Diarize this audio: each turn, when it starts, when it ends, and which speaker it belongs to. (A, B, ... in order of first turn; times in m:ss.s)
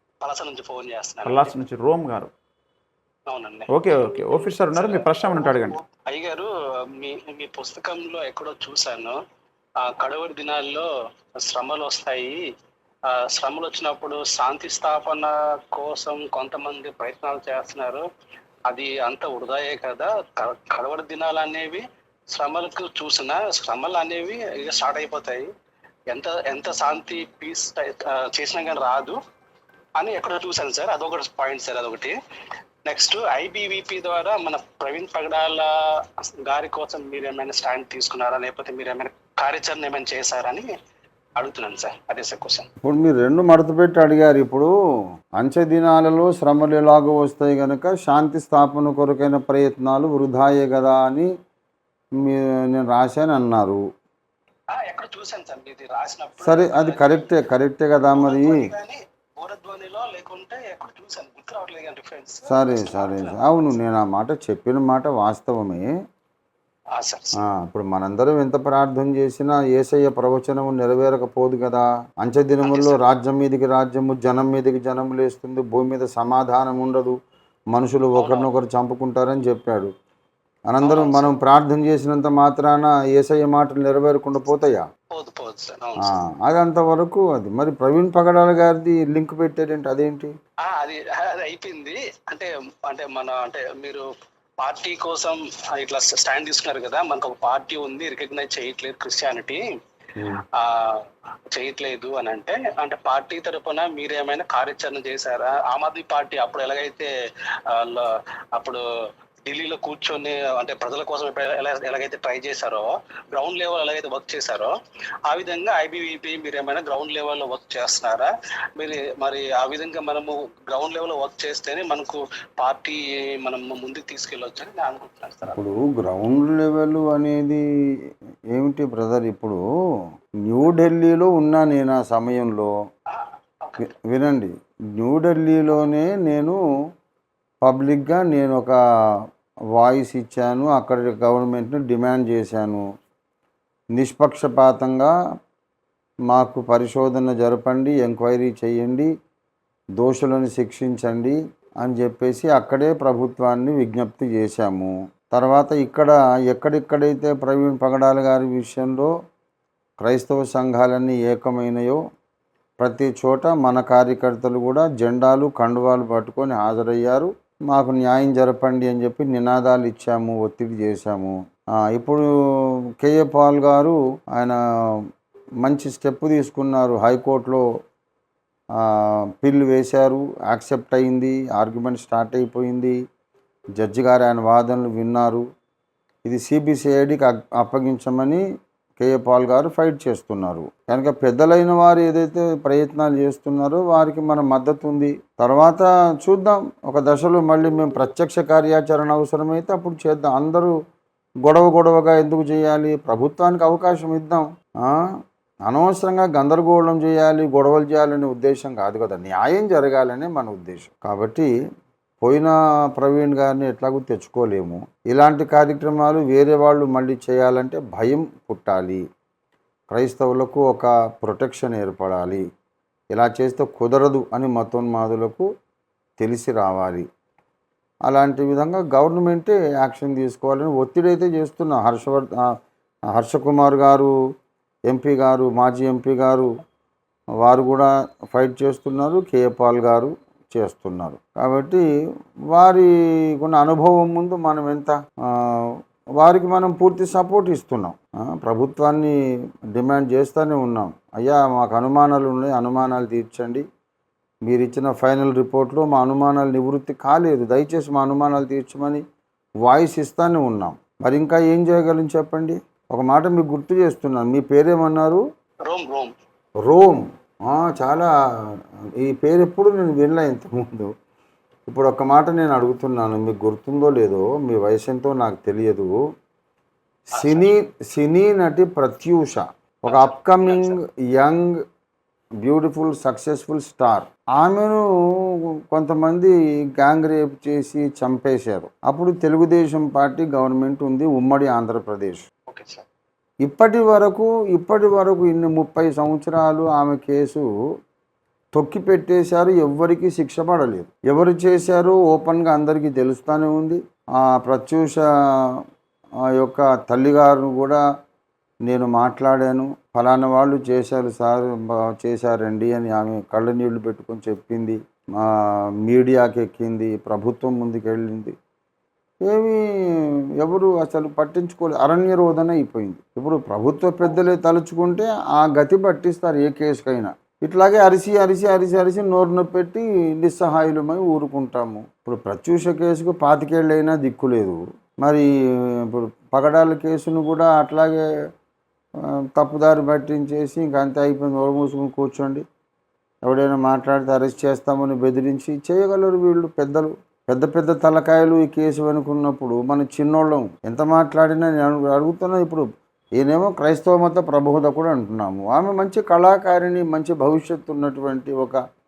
0:00.2-0:01.6 A
0:01.2-0:02.3 B
0:03.3-0:06.5 A
0:03.7-0:05.8 B
0:07.0-0:09.2 A
0:09.8-0:10.9 A
0:11.4-0:12.4 A
0:13.1-0:18.0 A
0:18.7-0:21.8 A
0:22.3-0:25.5 A
0:26.1-0:29.2 A
0:30.0-0:32.2 A
0:32.9-0:35.7 A
0:36.4-0:40.7 A
0:41.4-0:42.7 A
0:42.8-0:44.7 C
0:45.4-0:51.3 C
0:52.2-0:53.8 C
0:54.7-0:57.4 A
0:56.4-0:58.6 C
0:58.1-1:03.8 A
1:02.5-1:05.9 C
1:07.0-1:07.4 A
1:07.4-1:17.2 C
1:12.6-1:13.0 A
1:17.7-1:19.9 C
1:18.2-1:18.5 A
1:20.7-1:24.9 C
1:20.8-1:21.3 A
1:25.1-1:26.2 A
1:26.1-1:30.3 C
1:30.7-1:34.0 A
1:34.6-1:39.6 A
1:40.6-1:41.0 A
1:41.5-1:47.1 A
1:47.7-1:48.8 A
1:49.5-1:54.7 A
1:55.3-2:05.6 A
2:05.5-2:07.6 C
2:08.5-2:09.6 C
2:10.5-2:12.7 C
2:13.1-2:13.9 A
2:13.8-2:16.6 C
2:17.6-2:18.8 C
2:19.8-2:22.9 C
2:24.0-2:25.1 C
2:26.3-2:29.1 C
2:30.0-2:39.1 C
2:40.0-2:42.0 C
2:42.8-2:51.4 C
2:51.9-2:52.2 C
2:53.0-2:54.6 C
2:55.6-2:57.6 C
2:58.8-3:03.0 C
3:03.8-3:05.4 C
3:06.2-3:08.4 C
3:09.0-3:20.7 C
3:21.4-3:25.1 C
3:25.7-3:31.5 C
3:32.2-3:39.0 C
3:39.9-3:42.4 C
3:43.1-3:45.5 C
3:46.2-3:47.1 C
3:48.1-3:52.5 C
3:53.1-3:54.1 C
3:54.9-3:56.5 C
3:57.4-4:01.8 C
4:02.5-4:09.2 C
4:09.8-4:13.6 C
4:14.5-4:19.0 C
4:19.6-4:25.2 C
4:25.7-4:26.1 A
4:26.7-4:30.9 C
4:31.7-4:36.0 C
4:37.1-4:41.6 C
4:37.1-4:37.5 A
4:39.9-4:40.8 A
4:42.4-4:52.2 C
4:52.5-4:52.8 A
4:53.4-4:57.5 C
4:58.6-5:05.6 C
5:06.4-5:07.8 C
5:08.7-5:18.4 C
5:19.2-5:38.1 C
5:39.1-5:42.4 C
5:43.3-5:52.7 C
5:53.2-5:58.6 C